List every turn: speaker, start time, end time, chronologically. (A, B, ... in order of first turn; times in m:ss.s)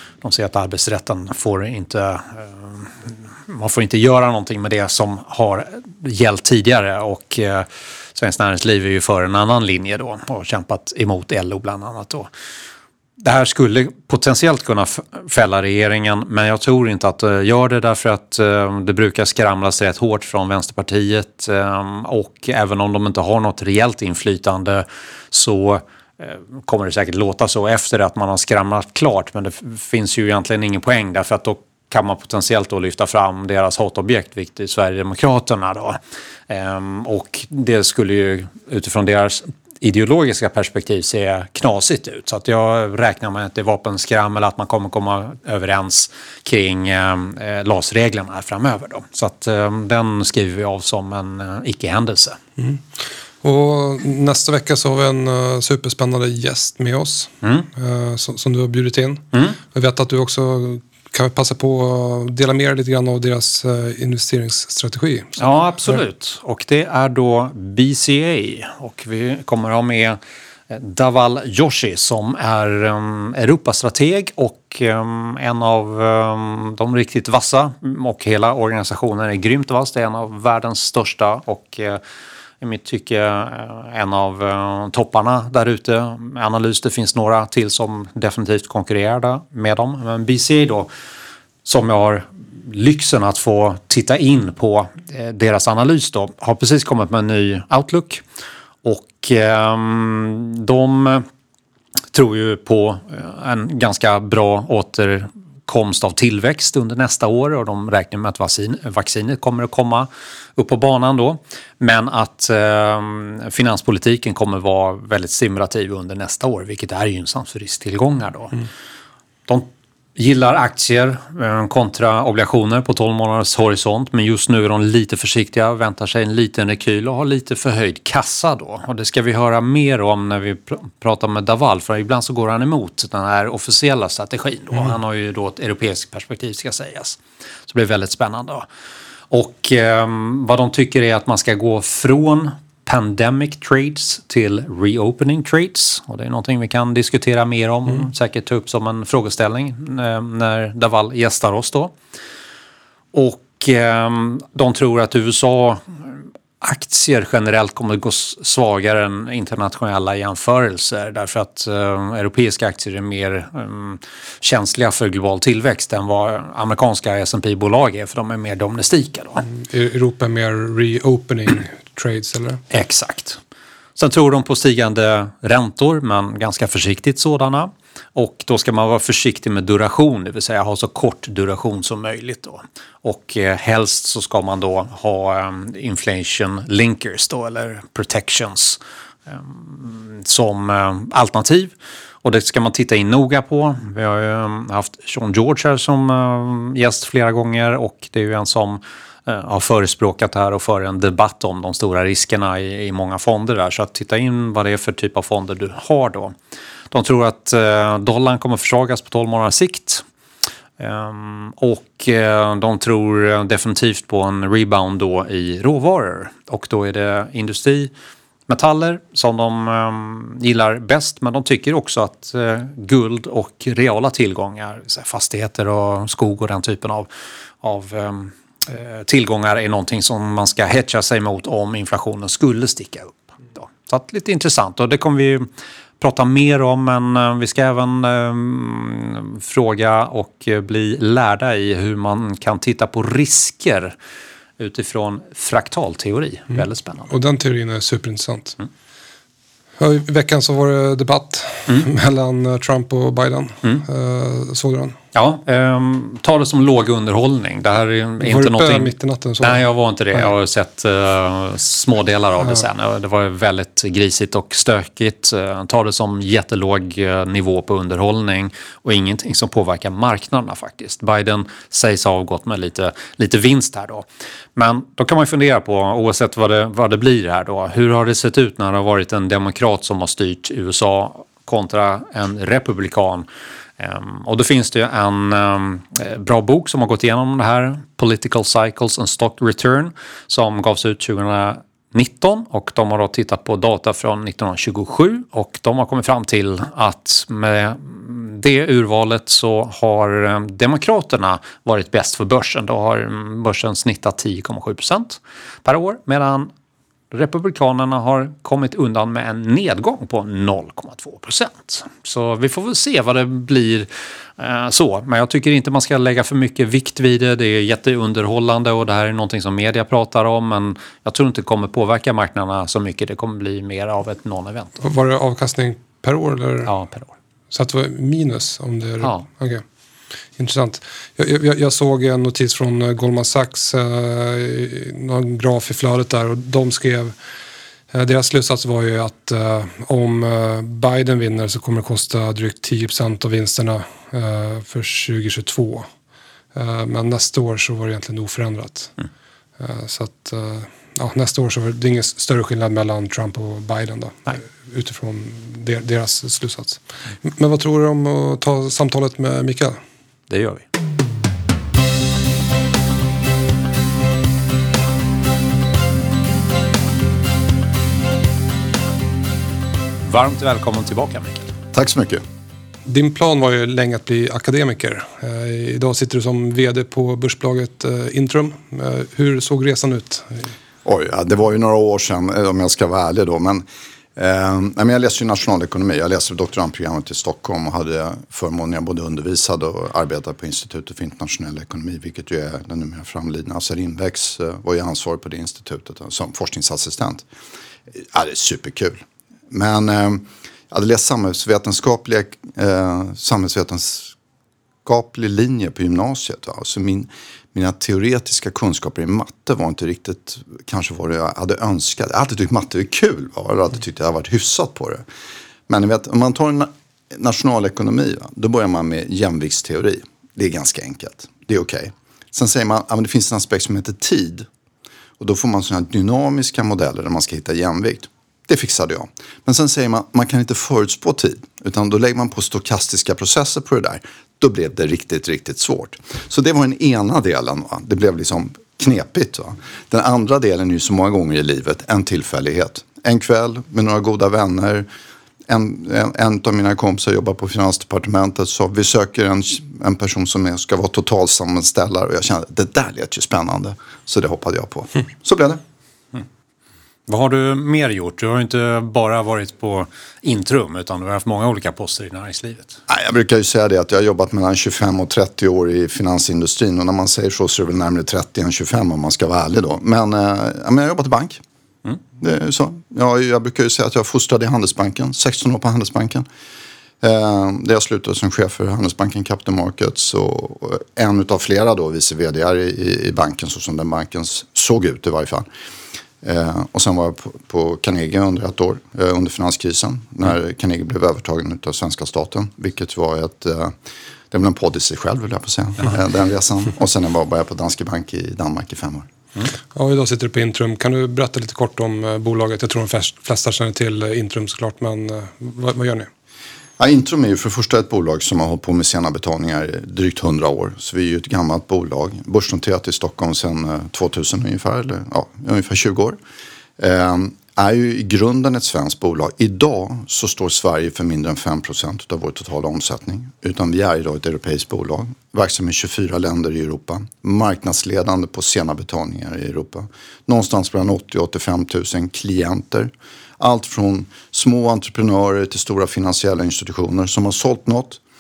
0:00.2-0:12.3 A
0:13.2-0:52.4 A
0:53.4-1:05.4 B
1:05.4-1:10.2 A
1:10.7-1:22.0 A
1:22.6-1:30.9 A
1:31.6-1:38.2 A
1:38.8-1:41.2 A
1:42.1-1:58.7 A
1:59.5-2:18.6 A
2:19.3-2:31.9 A
2:33.1-2:49.4 A
2:49.5-2:52.6 B
2:52.7-2:53.4 A
2:54.0-3:11.7 A
3:12.2-3:26.3 A
3:26.9-3:30.0 A
3:30.8-3:37.9 A
3:38.5-3:47.1 A
3:47.6-3:55.5 A
3:56.0-4:03.9 A
4:04.6-4:07.1 A
4:07.1-4:08.6 B
4:09.8-4:15.0 B
4:15.1-4:43.3 A
4:18.2-4:19.6 B
4:43.8-5:06.5 A
5:07.1-5:13.9 A
5:14.4-5:24.8 A
5:24.8-5:26.7 B
5:26.7-5:27.1 A
5:27.5-5:29.6 B
5:30.4-5:37.1 B
5:37.9-5:45.9 B
5:46.6-5:48.9 B
5:49.6-5:59.8 B
6:00.3-6:00.6 A
6:10.1-6:11.5 A
6:11.7-6:12.2 C
6:12.9-6:20.5 B
6:20.8-6:23.6 C
6:24.2-6:37.2 C
6:37.9-6:44.1 C
6:44.8-6:55.0 C
6:55.7-7:04.5 C
7:05.2-7:24.9 C
7:25.5-7:35.6 C
7:37.1-7:42.8 A
7:42.9-7:51.4 C
7:52.2-7:56.2 C
7:57.0-8:05.5 C
8:06.2-8:13.7 C
8:14.3-8:19.1 C
8:19.7-8:26.1 B
8:26.8-8:36.2 C
8:36.8-8:58.0 C